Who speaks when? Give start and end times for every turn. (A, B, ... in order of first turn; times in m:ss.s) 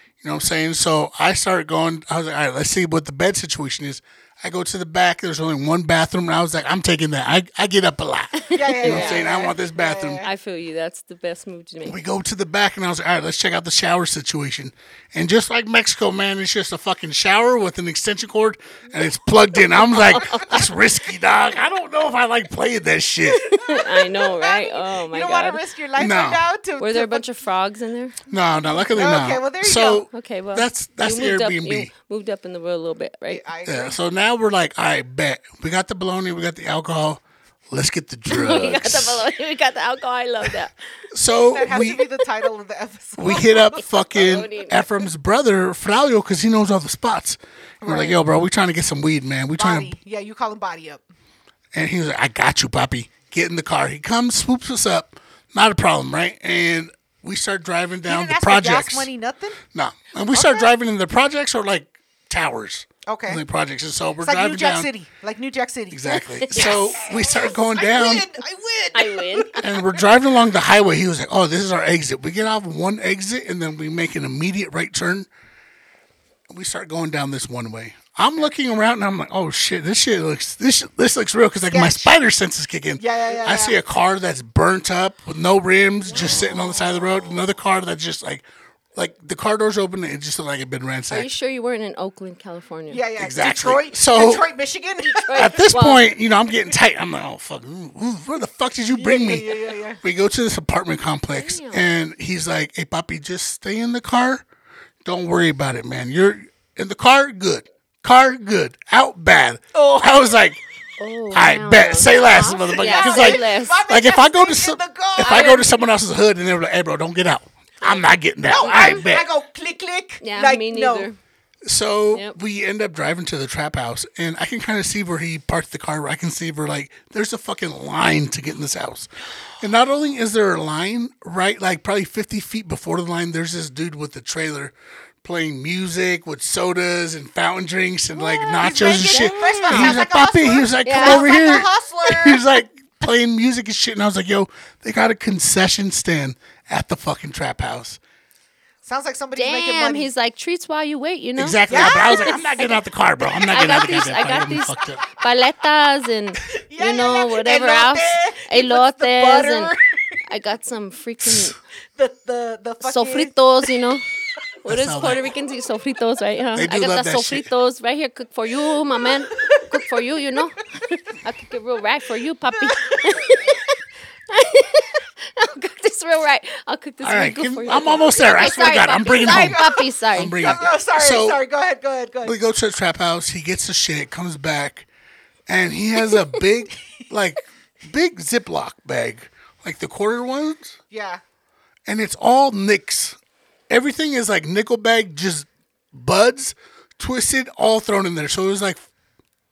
0:00.2-0:10.3 A
0:08.4-0:09.3 B
0:08.5-0:10.3 C
0:10.2-0:12.0 B
0:11.8-0:23.5 A
0:20.0-0:20.6 B
0:23.5-0:25.6 B
0:23.6-0:27.2 C
0:26.0-0:26.4 A
0:26.8-0:28.2 B
0:28.3-0:31.9 A
0:28.9-0:30.1 C
0:30.1-0:33.4 B
0:33.3-0:34.0 C
0:33.7-0:39.2 A
0:38.3-0:40.7 B
0:41.1-0:42.0 A
0:41.4-0:43.8 C
0:43.2-0:49.9 A
0:44.1-0:44.9 B
0:47.8-0:48.2 C
0:49.6-0:51.0 C
0:51.7-0:59.1 A
0:58.1-0:59.6 C
0:59.7-1:04.9 A
1:00.3-1:00.7 C
1:03.1-1:03.4 C
1:04.2-1:10.0 C
1:05.9-1:08.3 A
1:06.3-1:06.7 B
1:08.9-1:09.7 B
1:09.6-1:15.3 A
1:16.5-1:31.3 A
1:21.7-1:22.2 C
1:23.0-1:23.8 C
1:31.1-1:33.0 B
1:32.9-1:35.6 C
1:33.2-1:34.5 A
1:35.0-1:36.0 B
1:35.3-1:44.4 A
1:38.9-1:40.0 C
1:41.3-1:41.9 B
1:45.0-1:50.6 A
1:49.7-1:50.4 C
1:51.0-1:53.8 B
1:51.3-1:59.3 A
1:52.6-1:55.7 C
1:55.2-1:55.7 B
1:58.5-2:01.1 C
1:58.6-1:59.1 B
2:00.2-2:01.2 B
2:01.6-2:28.0 A
2:18.2-2:22.4 C
2:18.6-2:20.0 B
2:20.8-2:21.3 B
2:28.8-2:30.1 C
2:29.4-2:32.7 B
2:31.4-2:35.0 A
2:31.7-2:32.5 C
2:33.5-2:39.8 B
2:36.5-2:40.2 C
2:40.3-2:41.6 B
2:42.0-2:43.3 C
2:42.8-2:44.1 B
2:44.6-2:53.8 B
2:44.7-2:45.3 A
2:46.6-2:47.5 A
2:49.0-2:49.7 C
2:52.5-2:53.4 C
2:54.3-3:00.7 B
2:57.0-3:01.4 A
2:59.0-3:02.4 C
3:02.2-3:04.9 A
3:05.5-3:10.8 A
3:10.9-3:11.2 C
3:11.9-3:13.2 A
3:13.7-3:18.8 A